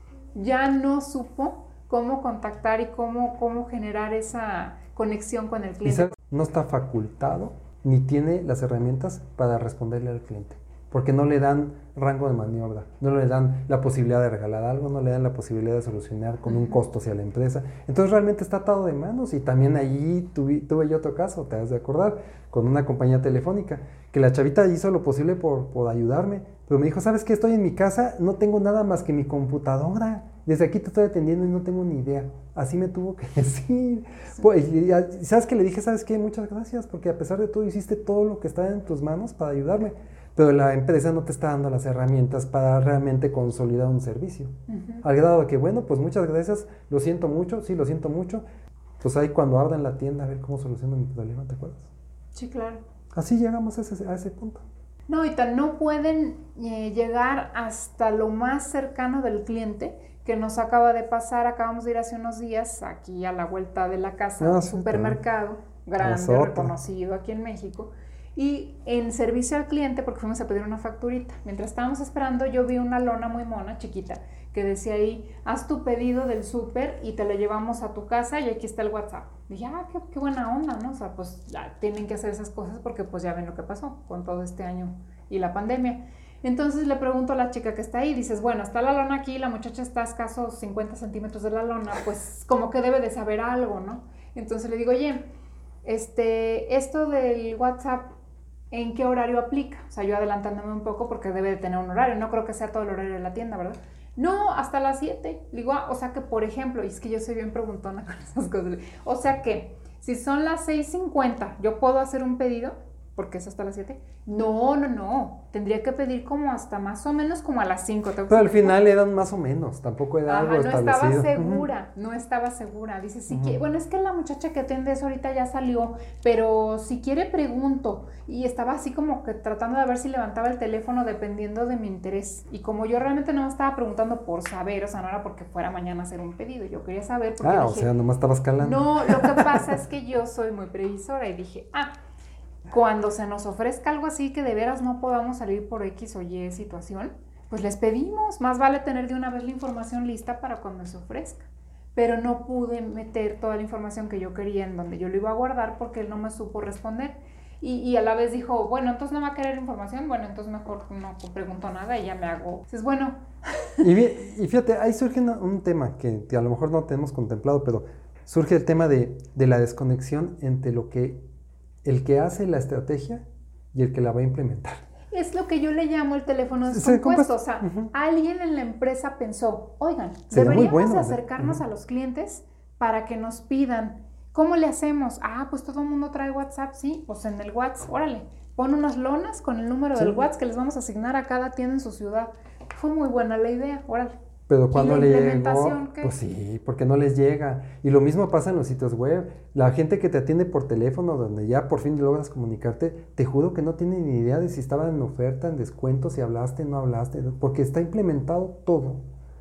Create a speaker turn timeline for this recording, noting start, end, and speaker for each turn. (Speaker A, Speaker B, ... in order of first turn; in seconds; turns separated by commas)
Speaker A: 0.3-6.2, Speaker B: 5.8-48.4, Speaker A: 16.4-16.8, Speaker A: 44.7-45.0, Speaker B: 49.0-51.9, Speaker A: 52.4-52.8, Speaker B: 53.1-54.6, Speaker A: 55.1-95.3, Speaker B: 64.4-65.2, Speaker B: 66.0-66.8, Speaker A: 95.8-98.1, Speaker A: 98.7-118.8, Speaker B: 118.3-121.7, Speaker A: 120.3-137.9, Speaker B: 123.3-123.6, Speaker B: 137.4-139.7, Speaker A: 138.6-141.9, Speaker A: 142.7-163.9, Speaker B: 163.8-171.2, Speaker B: 171.8-174.8, Speaker A: 175.1-194.2, Speaker B: 176.7-177.9, Speaker B: 180.3-181.6, Speaker B: 190.0-190.2, Speaker B: 194.5-209.0, Speaker A: 194.7-196.1